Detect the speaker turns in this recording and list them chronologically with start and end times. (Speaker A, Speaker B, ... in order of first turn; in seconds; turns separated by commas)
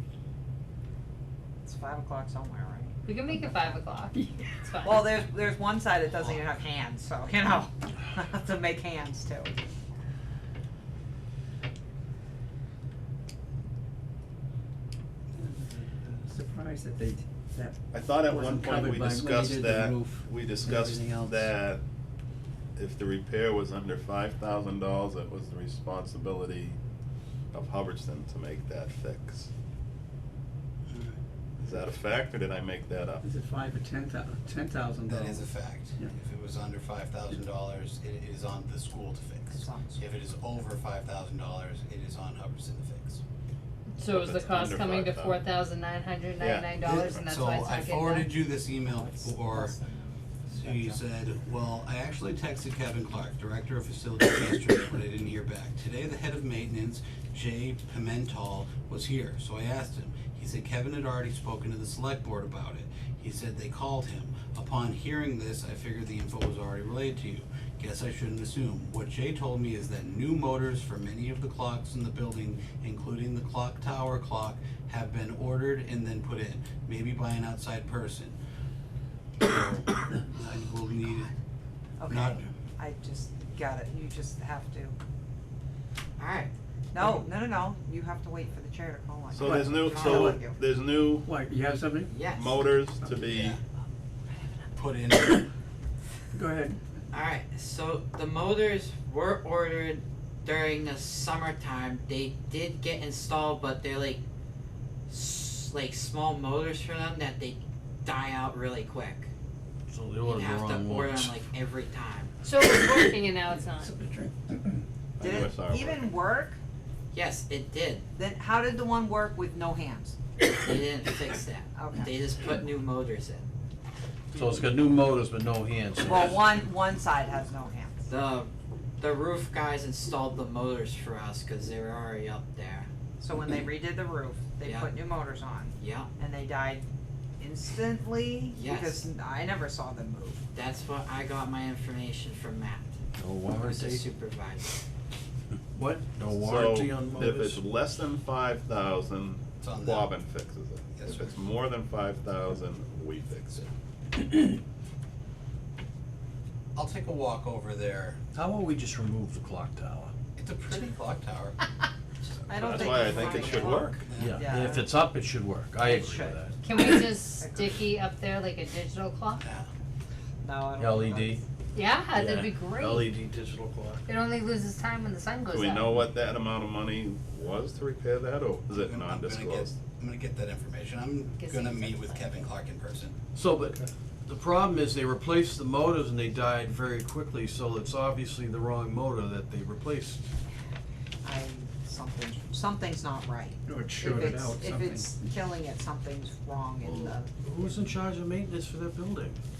Speaker A: 1.6-3.7, Speaker B: 3.0-5.2, Speaker A: 4.8-9.6, Speaker C: 15.3-21.5, Speaker D: 17.9-21.8, Speaker D: 22.8-26.8, Speaker D: 27.5-29.5, Speaker D: 31.6-33.2, Speaker C: 33.2-36.1, Speaker E: 35.0-43.2, Speaker A: 39.5-40.0, Speaker B: 44.0-48.3, Speaker D: 44.0-45.4, Speaker D: 46.4-47.2, Speaker E: 46.8-49.8, Speaker B: 49.5-50.0, Speaker E: 50.5-78.3, Speaker E: 79.4-81.3, Speaker A: 82.0-85.0, Speaker E: 82.1-82.5, Speaker F: 86.2-86.5, Speaker A: 86.9-90.5, Speaker D: 89.3-91.3, Speaker C: 89.4-90.5, Speaker F: 89.9-90.3, Speaker C: 91.1-92.2, Speaker F: 92.1-92.6, Speaker D: 92.3-93.6, Speaker E: 93.3-93.6, Speaker E: 94.7-95.5, Speaker C: 96.3-96.8, Speaker F: 97.1-104.2, Speaker F: 105.1-109.3, Speaker G: 109.9-111.5, Speaker F: 110.2-112.3, Speaker B: 112.4-114.0, Speaker C: 113.7-114.8, Speaker D: 115.2-116.1, Speaker A: 115.2-116.6, Speaker F: 117.1-118.0, Speaker A: 118.1-120.2, Speaker F: 120.5-123.5, Speaker A: 121.7-122.2, Speaker G: 124.3-126.5, Speaker A: 126.0-128.1, Speaker F: 128.1-132.9, Speaker A: 133.2-136.9, Speaker F: 134.6-134.9, Speaker F: 135.8-136.1, Speaker A: 137.4-140.4, Speaker F: 138.5-139.1, Speaker F: 140.5-142.9, Speaker G: 143.2-144.0, Speaker F: 143.5-144.8, Speaker G: 145.7-147.6, Speaker D: 146.3-153.7, Speaker E: 149.6-150.1, Speaker E: 151.0-151.5, Speaker E: 156.7-158.2, Speaker G: 158.3-160.1, Speaker E: 160.3-161.6, Speaker D: 162.5-164.1, Speaker A: 162.5-164.9, Speaker E: 164.1-164.4, Speaker G: 164.2-166.9, Speaker A: 165.8-166.4, Speaker B: 166.6-169.4, Speaker A: 167.4-167.7, Speaker E: 169.4-169.7, Speaker A: 170.4-171.4, Speaker G: 170.8-171.4, Speaker B: 171.7-173.1, Speaker G: 172.1-174.1, Speaker B: 174.1-175.9, Speaker D: 175.5-179.7, Speaker E: 178.7-183.2, Speaker B: 181.3-182.5, Speaker G: 183.3-190.2, Speaker A: 191.2-197.8, Speaker C: 193.7-195.2, Speaker G: 196.8-199.4